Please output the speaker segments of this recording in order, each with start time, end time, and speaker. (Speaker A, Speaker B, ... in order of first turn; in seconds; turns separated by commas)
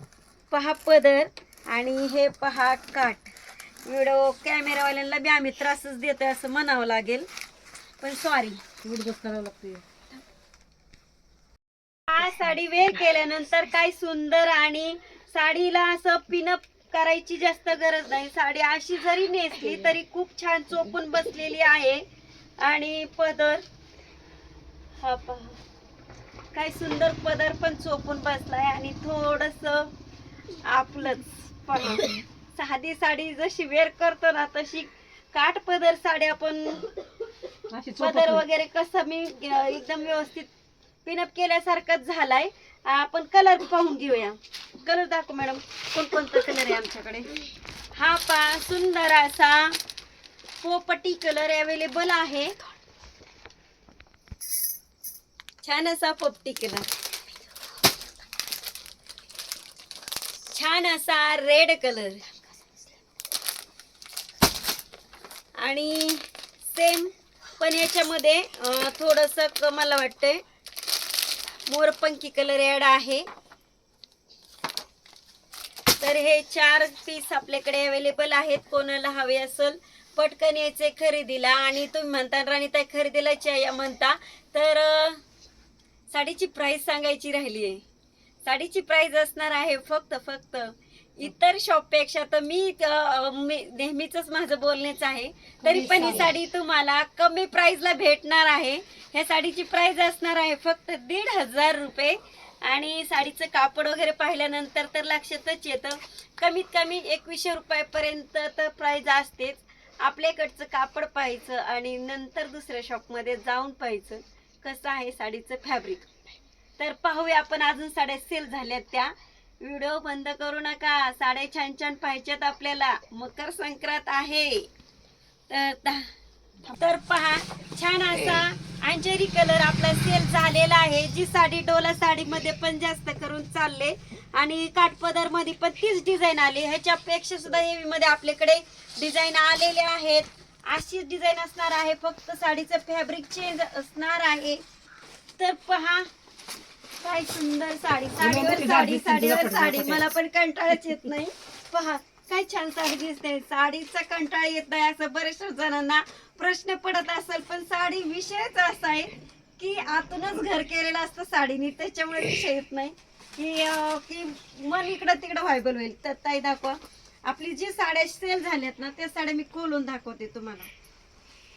Speaker A: 0.5-3.3, Speaker A: 3.9-7.3, Speaker A: 8.0-8.6, Speaker B: 8.8-9.8, Speaker A: 12.1-22.0, Speaker A: 22.6-23.6, Speaker A: 25.0-25.6, Speaker A: 26.5-29.9, Speaker A: 30.6-36.9, Speaker B: 37.7-38.4, Speaker A: 38.0-40.5, Speaker A: 41.0-47.3, Speaker A: 47.9-49.8, Speaker A: 50.6-52.5, Speaker A: 55.6-56.9, Speaker A: 60.5-62.2, Speaker A: 65.6-70.4, Speaker A: 71.7-73.2, Speaker A: 76.0-85.2, Speaker A: 86.1-87.8, Speaker A: 88.4-116.1, Speaker B: 95.7-96.3, Speaker A: 116.8-124.7, Speaker A: 125.5-126.1, Speaker A: 126.7-144.6, Speaker A: 145.4-146.1, Speaker A: 147.0-170.7, Speaker B: 148.2-150.1